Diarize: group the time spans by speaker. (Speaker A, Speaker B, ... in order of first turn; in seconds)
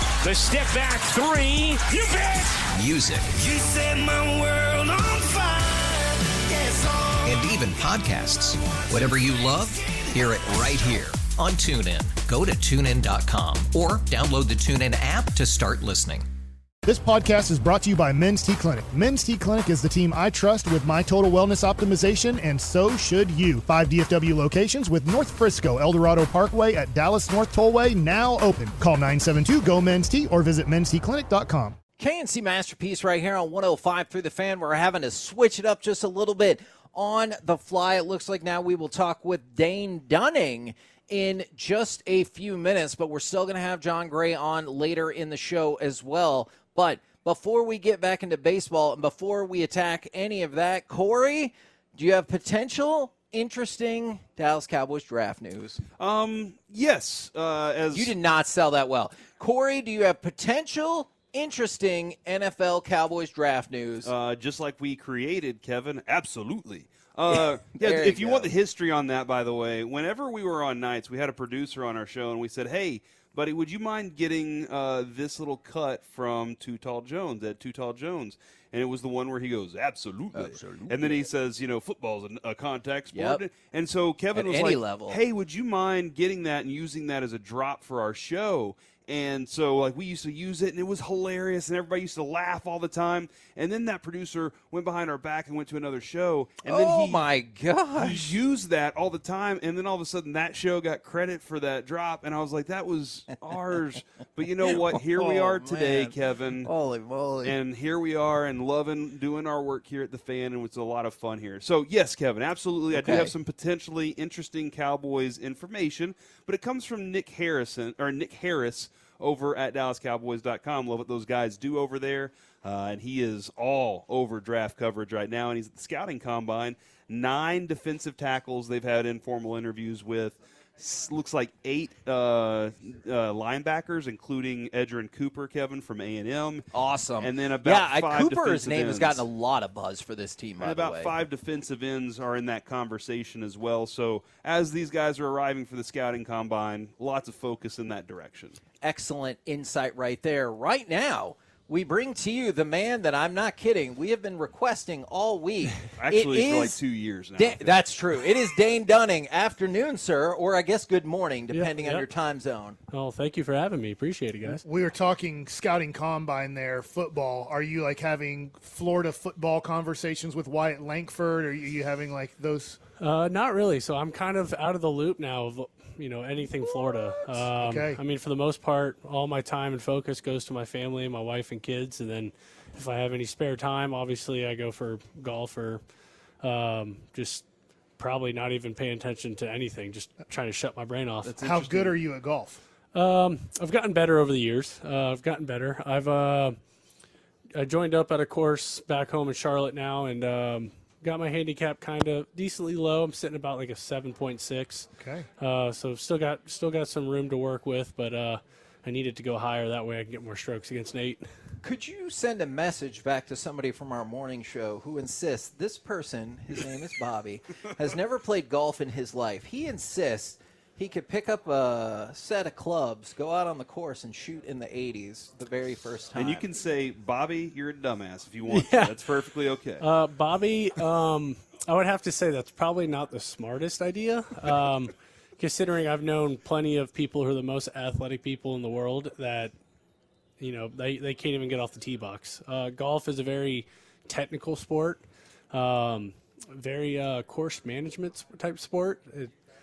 Speaker A: 0.2-2.6
Speaker B: 2.7-3.3, 7.3-16.3
Speaker C: 3.3-7.4
Speaker D: 16.9-31.8, 164.5-172.8, 177.4-178.0, 191.4-192.6, 205.0-205.3
Speaker E: 32.0-55.8, 57.9-64.1, 67.3-68.5, 80.3-81.2, 83.1-83.5, 84.3-85.2, 96.7-98.4, 104.6-107.6, 112.9-113.3, 136.7-141.2, 148.8-156.8, 157.4-162.8, 211.6-226.5
Speaker F: 56.0-58.1, 64.0-97.2, 98.0-106.7, 107.4-136.7, 137.2-139.2, 140.6-148.6, 155.9-157.8, 191.4-191.9, 226.2-229.8
Speaker G: 161.5-162.1, 162.9-164.6, 173.0-185.8, 186.4-187.4, 188.0-191.5, 192.9-196.6, 197.6-211.3, 228.5-229.0, 229.8-239.5, 240.4-249.3